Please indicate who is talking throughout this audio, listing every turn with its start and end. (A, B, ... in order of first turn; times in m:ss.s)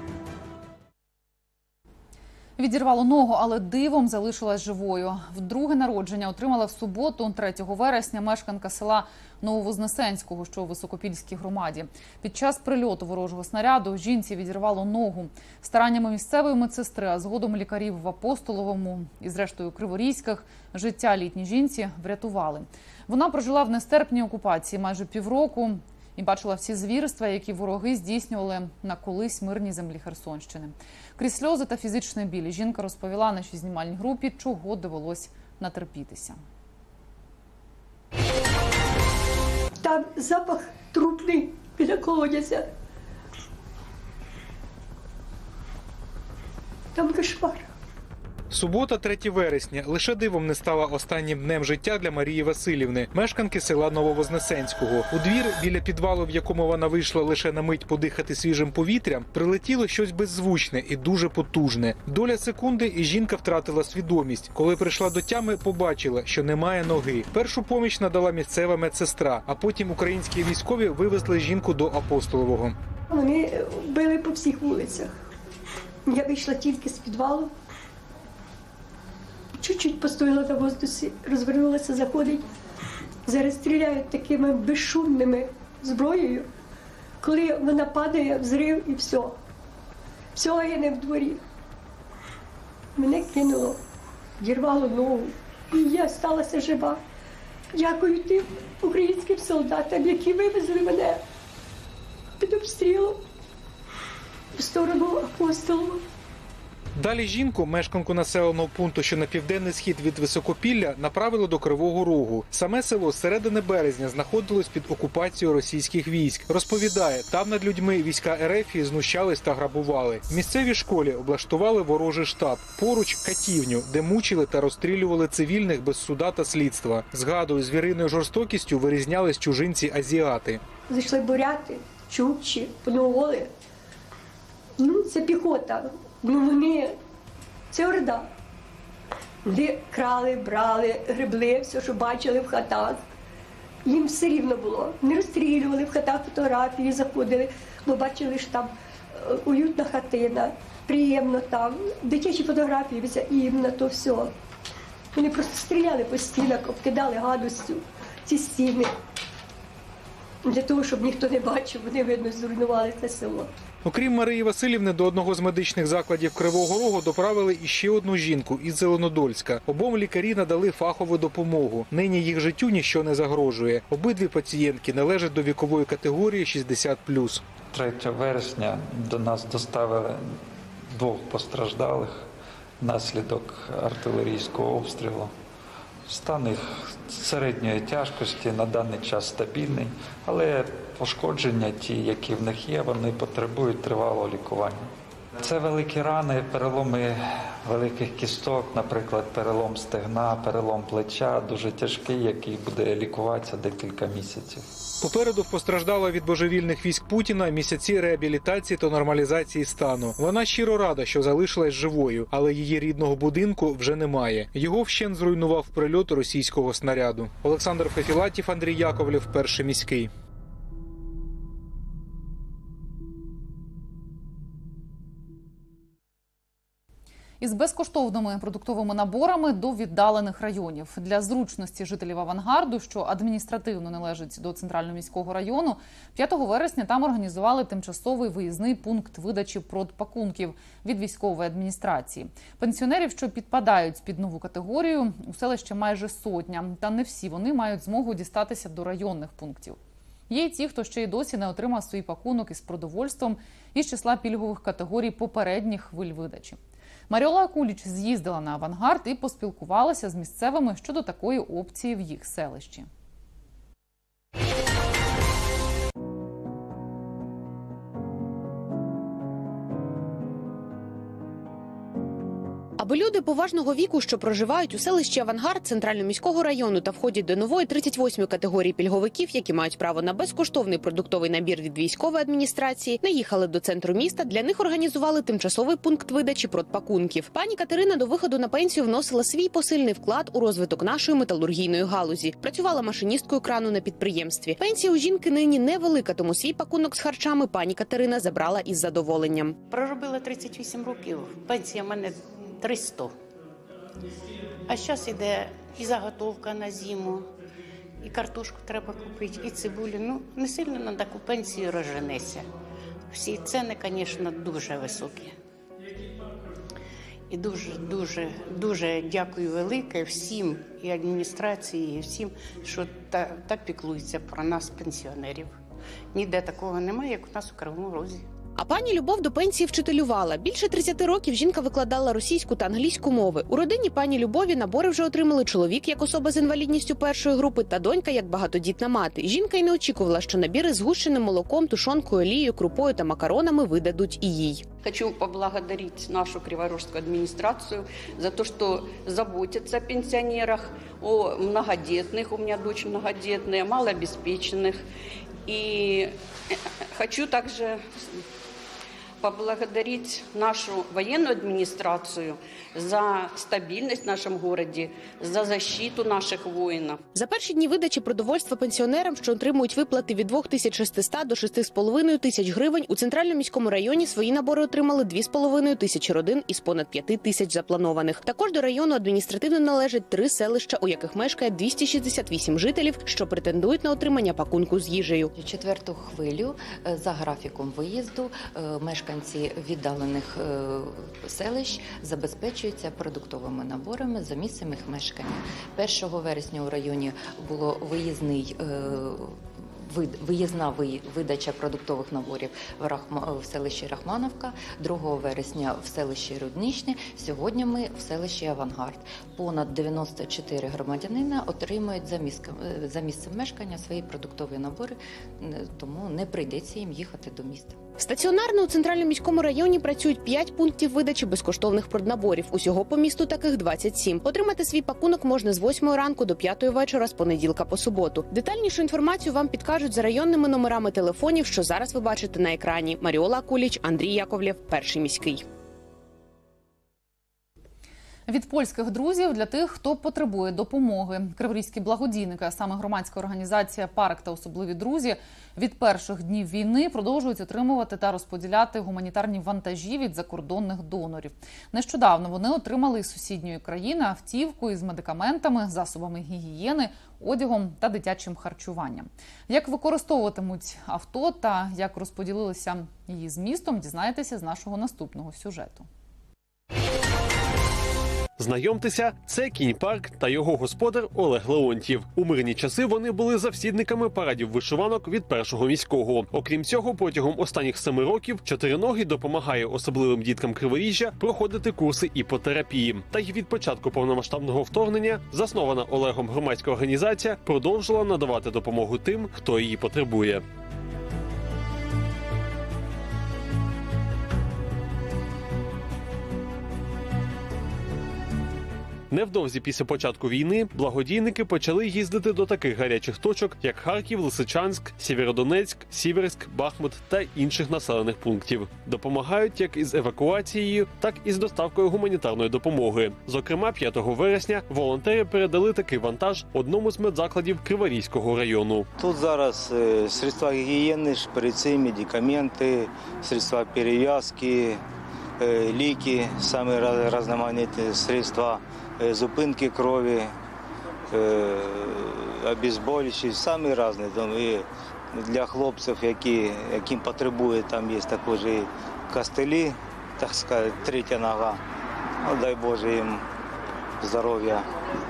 0:02.6-0:36.4 A
0:39.8-0:42.7 B
0:46.9-0:47.7 B
0:48.5-1:12.8 C
1:13.1-1:15.1 B
1:16.1-1:17.5 B
1:19.6-1:22.5 B
1:23.3-1:26.5 B
1:27.2-1:29.4 B
1:30.4-1:31.4 B
1:33.0-1:33.8 B
1:34.4-1:37.0 B
1:37.7-1:41.2 B
1:42.4-1:43.2 B
1:44.6-1:46.0 B
1:47.0-2:10.6 C
2:10.9-2:13.5 B
2:14.8-2:17.0 B
2:17.7-2:18.3 B
2:19.4-2:23.1 B
2:23.8-2:34.3 B
2:35.1-2:38.9 B
2:40.4-2:43.5 B
2:43.8-2:57.4 C
2:57.7-3:00.4 D
3:00.9-3:02.3 D
3:02.8-3:05.3 D
3:06.1-3:14.9 D
3:15.4-3:24.7 D
3:25.0-3:40.1 C
3:47.4-4:09.8 A
4:10.3-4:16.6 A
4:17.1-4:22.9 A
4:32.8-4:59.6 E
4:59.7-5:03.1 F
5:04.7-5:07.3 F
5:08.0-5:12.5 F
5:13.1-5:15.4 F
5:17.3-5:25.5 F
5:26.1-5:28.2 F
5:28.6-5:44.7 E
5:44.8-5:54.8 G
5:55.5-5:56.1 G
5:56.9-5:58.2 G
5:59.2-6:07.0 G
6:07.1-6:25.3 E
6:25.4-6:57.8 H
6:58.0-7:15.4 E
7:18.3-7:45.9 A
7:48.4-8:10.4 I
8:19.1-8:38.9 I
8:39.0-8:44.8 J
8:45.4-8:50.3 J
8:51.1-9:01.6 J
9:02.2-9:03.2 J
9:04.0-9:04.7 J